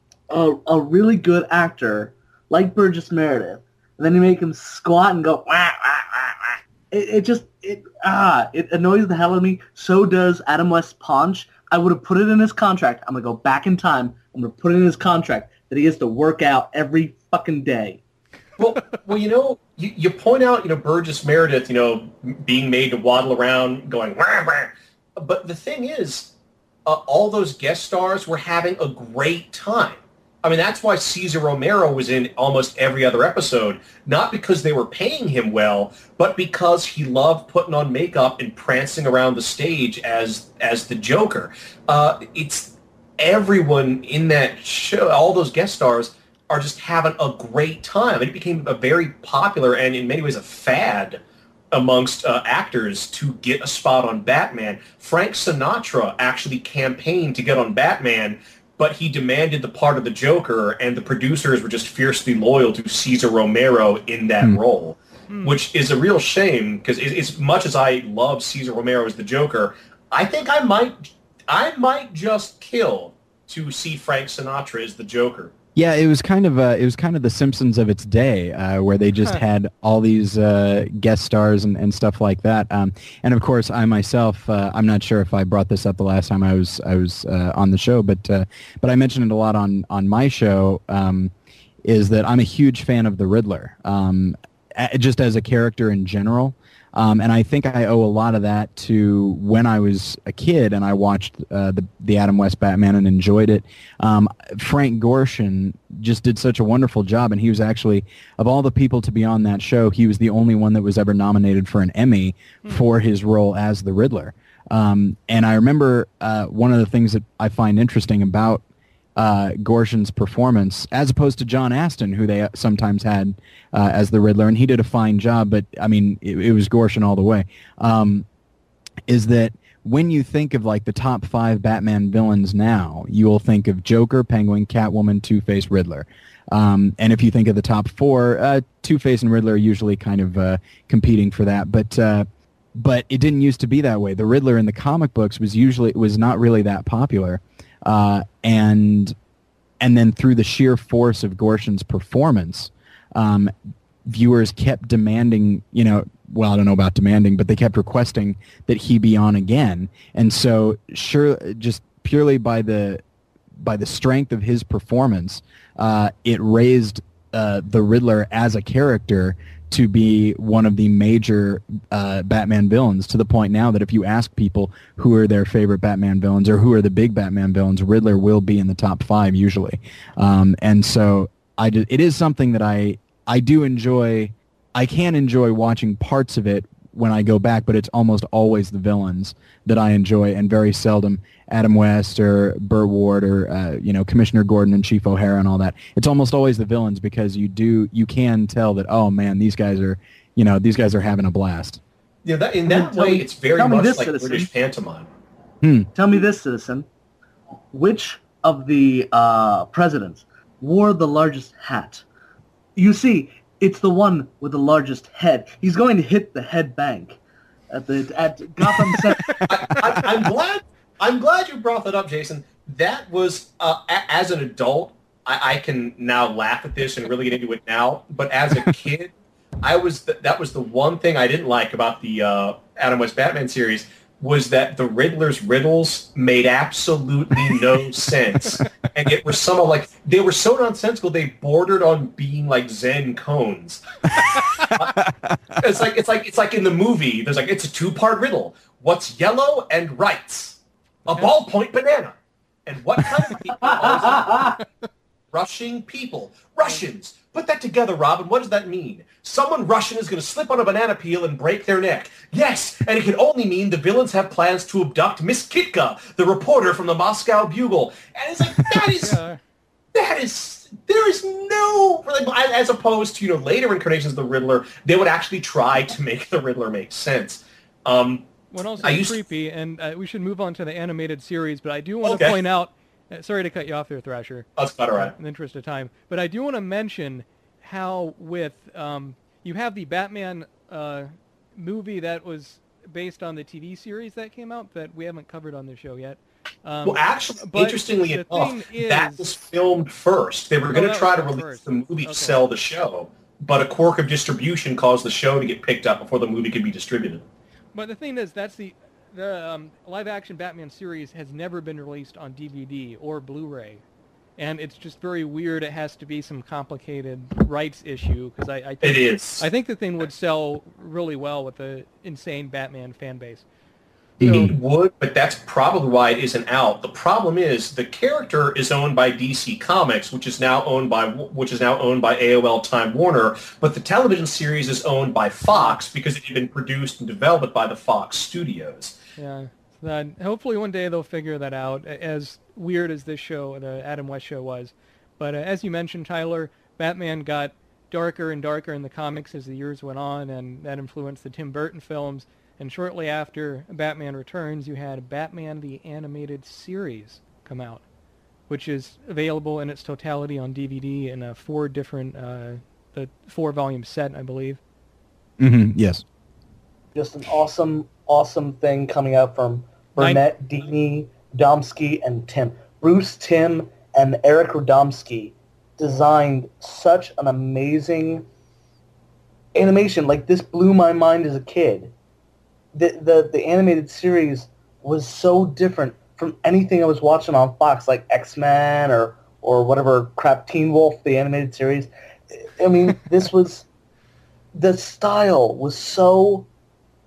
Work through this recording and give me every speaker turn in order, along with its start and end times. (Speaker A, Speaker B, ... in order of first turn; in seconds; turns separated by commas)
Speaker A: 0.3-18.0, Speaker B: 18.6-26.3, Speaker B: 26.9-51.2, Speaker B: 51.7-75.5, Speaker C: 65.3-65.6, Speaker D: 75.8-91.3, Speaker D: 91.8-118.6, Speaker D: 119.2-128.2, Speaker D: 129.1-149.1, Speaker D: 149.8-153.5, Speaker D: 154.1-163.0, Speaker D: 163.6-201.8, Speaker B: 202.2-205.1, Speaker A: 202.7-204.5, Speaker D: 205.6-205.9, Speaker A: 205.9-206.9, Speaker A: 207.7-212.0, Speaker A: 212.8-217.2, Speaker A: 217.7-219.4, Speaker D: 218.8-220.1, Speaker B: 219.4-244.9, Speaker D: 244.1-245.6, Speaker B: 245.6-254.6, Speaker A: 254.0-254.5, Speaker C: 254.4-254.6, Speaker B: 255.3-269.2, Speaker C: 268.9-269.4, Speaker B: 269.9-278.3, Speaker C: 278.5-299.3, Speaker B: 278.8-279.2, Speaker B: 282.0-282.4, Speaker B: 284.6-285.1, Speaker B: 296.9-307.2, Speaker C: 300.7-302.4, Speaker C: 307.7-313.8, Speaker C: 314.4-323.5, Speaker B: 318.8-319.4, Speaker D: 324.2-324.5, Speaker C: 324.2-324.5, Speaker B: 324.2-338.9, Speaker C: 335.5-335.8, Speaker C: 339.2-357.8, Speaker C: 358.5-364.6, Speaker D: 365.4-366.0, Speaker A: 366.9-378.2, Speaker A: 379.5-381.9, Speaker A: 382.7-391.9, Speaker A: 392.4-393.7, Speaker A: 394.5-396.5